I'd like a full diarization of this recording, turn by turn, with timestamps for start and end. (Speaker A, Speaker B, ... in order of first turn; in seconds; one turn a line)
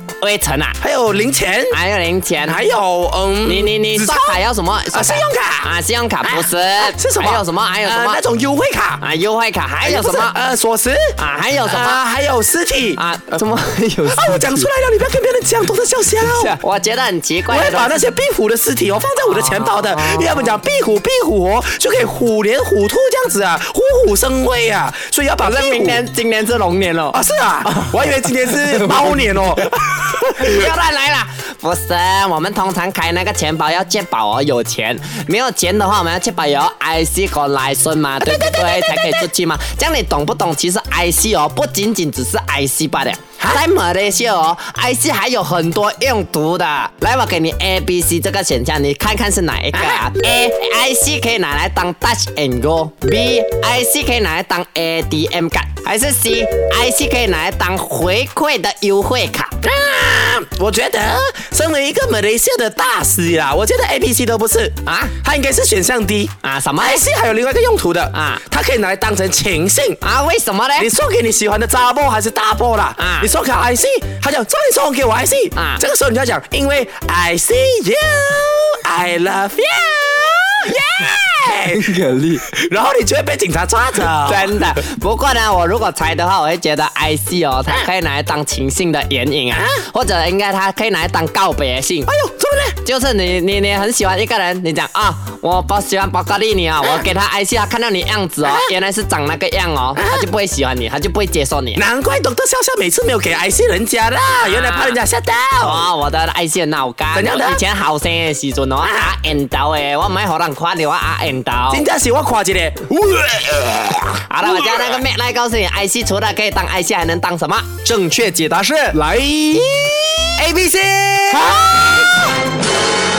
Speaker A: 0.2-0.8
Speaker B: 0.8-1.8
Speaker A: 1.7-2.6
Speaker B: 2.4-5.7
Speaker A: 3.4-8.2
Speaker B: 6.2-9.0
Speaker A: 9.0-10.4
Speaker B: 9.8-13.0
Speaker A: 11.2-12.0
Speaker A: 12.9-14.7
Speaker B: 14.1-16.6
Speaker A: 16.2-18.0
Speaker B: 17.5-26.0
Speaker A: 19.3-20.5
Speaker A: 25.4-27.2
Speaker B: 27.1-30.7
Speaker A: 28.2-29.4
Speaker A: 30.4-59.6
Speaker B: 38.2-39.3
Speaker B: 49.7-50.2
Speaker B: 59.6-70.0
Speaker A: 64.8-65.1
Speaker A: 66.4-67.0
Speaker A: 68.1-68.4
Speaker A: 70.0-70.9
Speaker B: 70.8-84.8
Speaker A: 73.0-73.3
Speaker A: 75.5-75.8
Speaker A: 81.7-82.4
Speaker A: 84.2-92.1
Speaker B: 89.5-89.8
Speaker B: 92.1-92.8
Speaker A: 92.8-101.8
Speaker B: 98.4-98.7
Speaker B: 100.0-100.3
Speaker B: 101.7-105.9
Speaker A: 104.4-105.0
Speaker A: 105.6-111.8
Speaker B: 107.1-107.6
Speaker B: 108.8-109.1
Speaker B: 111.7-115.0
Speaker A: 114.3-118.9
Speaker B: 118.9-120.3
Speaker A: 120.4-121.5
Speaker B: 121.3-122.2